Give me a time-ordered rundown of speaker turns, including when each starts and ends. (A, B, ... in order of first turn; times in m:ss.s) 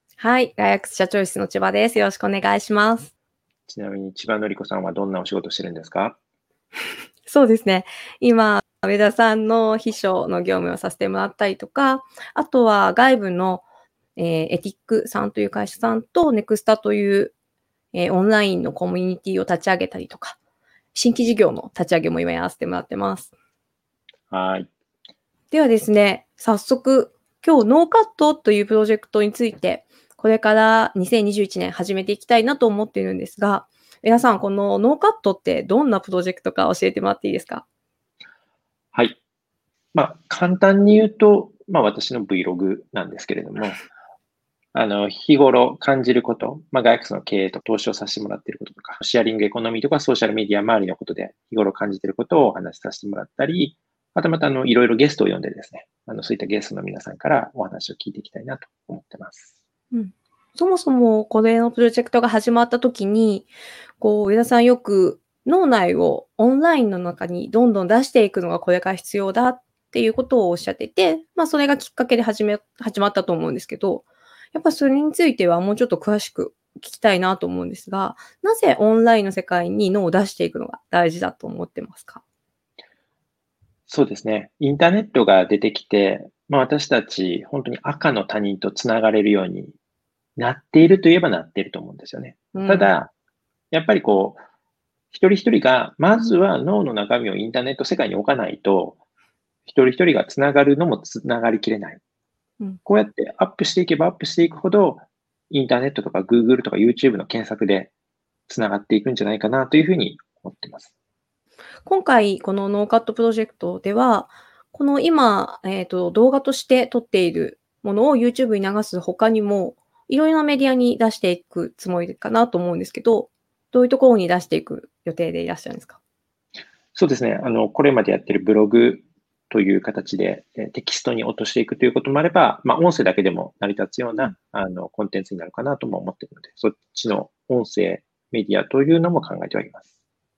0:00.2-0:03.1 A
0:03.7-0:06.2 B
0:07.3-0:13.6 A
0:14.2-0:17.3 A
0:17.9-0:20.4 A
0:20.9-0:23.3 A
0:24.3-0:24.7 B
0:25.5-0:37.6 A
0:38.9-0:39.2 B
0:39.9-0:43.8 B
0:44.7-0:59.5 B
0:59.9-1:22.2 A
1:23.9-1:29.8 B
1:30.4-1:33.1 B
1:32.5-1:32.9 A
1:33.7-1:34.4 B
1:35.1-1:39.0 B
1:39.6-1:42.0 B
1:42.8-1:47.9 B
1:48.5-1:50.9 B
1:51.8-2:06.0 A
2:07.0-2:19.8 B